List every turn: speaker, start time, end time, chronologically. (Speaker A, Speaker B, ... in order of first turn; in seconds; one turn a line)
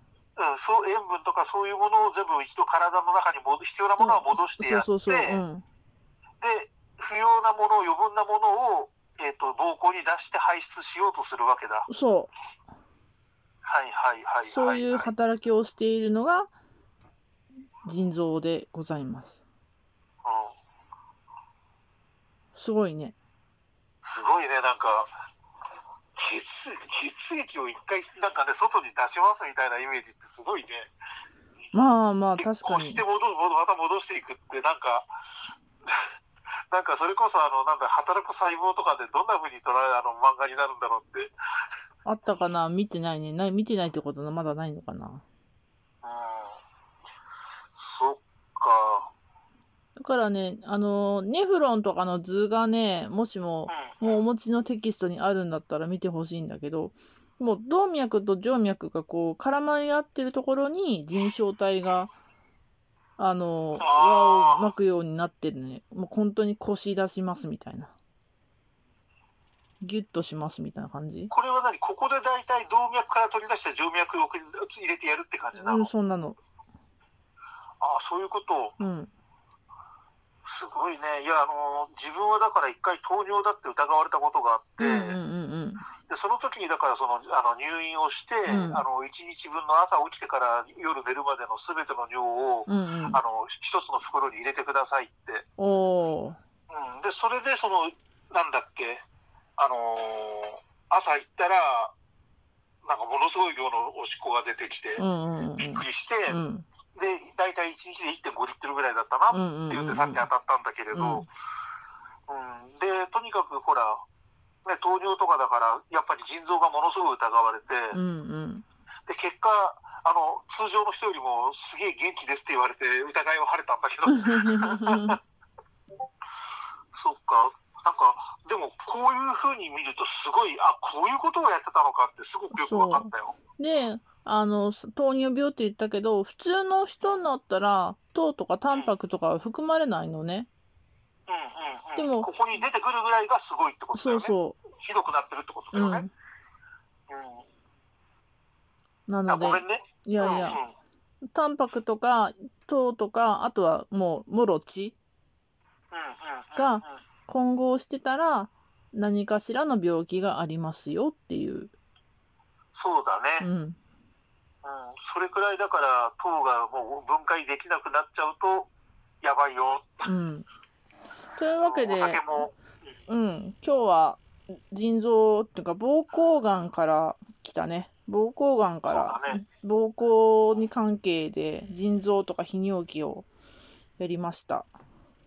Speaker A: 0.4-5.4
Speaker B: 4.0-5.6
Speaker A: 6.4-11.9
Speaker B: 11.9-12.3
Speaker A: 13.7-15.1
Speaker B: 14.5-16.5
Speaker B: 17.9-19.4
Speaker A: 20.2-20.5
Speaker B: 22.5-23.1
Speaker A: 24.0-25.1
Speaker A: 26.1-30.9
Speaker B: 31.7-33.0
Speaker A: 32.4-35.1
Speaker A: 36.7-41.3
Speaker B: 42.0-45.2
Speaker A: 46.0-46.6
Speaker A: 47.8-49.1
Speaker B: 50.0-62.1
Speaker A: 53.7-54.2
Speaker B: 63.2-67.9
Speaker A: 63.8-64.7
Speaker B: 69.8-71.3
Speaker A: 71.3-75.9
Speaker B: 75.5-76.4
Speaker A: 77.8-78.8
Speaker B: 78.8-79.1
Speaker A: 80.4-85.2
Speaker B: 84.8-85.9
Speaker A: 86.1-95.4
Speaker B: 88.5-88.8
Speaker B: 92.7-93.2
Speaker B: 95.6-96.4
Speaker A: 96.7-99.0
Speaker A: 99.6-101.9
Speaker A: 102.8-105.0
Speaker B: 105.0-106.7
Speaker A: 105.6-106.4
Speaker A: 106.9-111.2
Speaker B: 109.3-110.3
Speaker B: 110.9-111.2
Speaker A: 112.3-114.0
Speaker A: 114.6-118.0
Speaker B: 117.9-118.6
Speaker A: 119.1-125.2
Speaker B: 124.1-125.2
Speaker A: 126.9-133.3
Speaker B: 132.5-140.5
Speaker A: 141.3-146.0
Speaker B: 142.0-142.3
Speaker B: 143.9-144.6
Speaker B: 145.7-146.1
Speaker A: 147.1-147.4
Speaker B: 149.1-150.6
Speaker A: 149.3-150.7
Speaker B: 151.3-154.9
Speaker A: 155.9-157.0
Speaker B: 156.6-161.7
Speaker A: 162.7-163.5
Speaker B: 163.4-163.8
Speaker A: 164.6-168.7
Speaker A: 169.2-170.1
Speaker B: 170.1-170.4
Speaker B: 171.4-172.2
Speaker A: 171.6-172.5
Speaker B: 173.1-183.3
Speaker A: 178.8-179.4
Speaker B: 184.0-184.7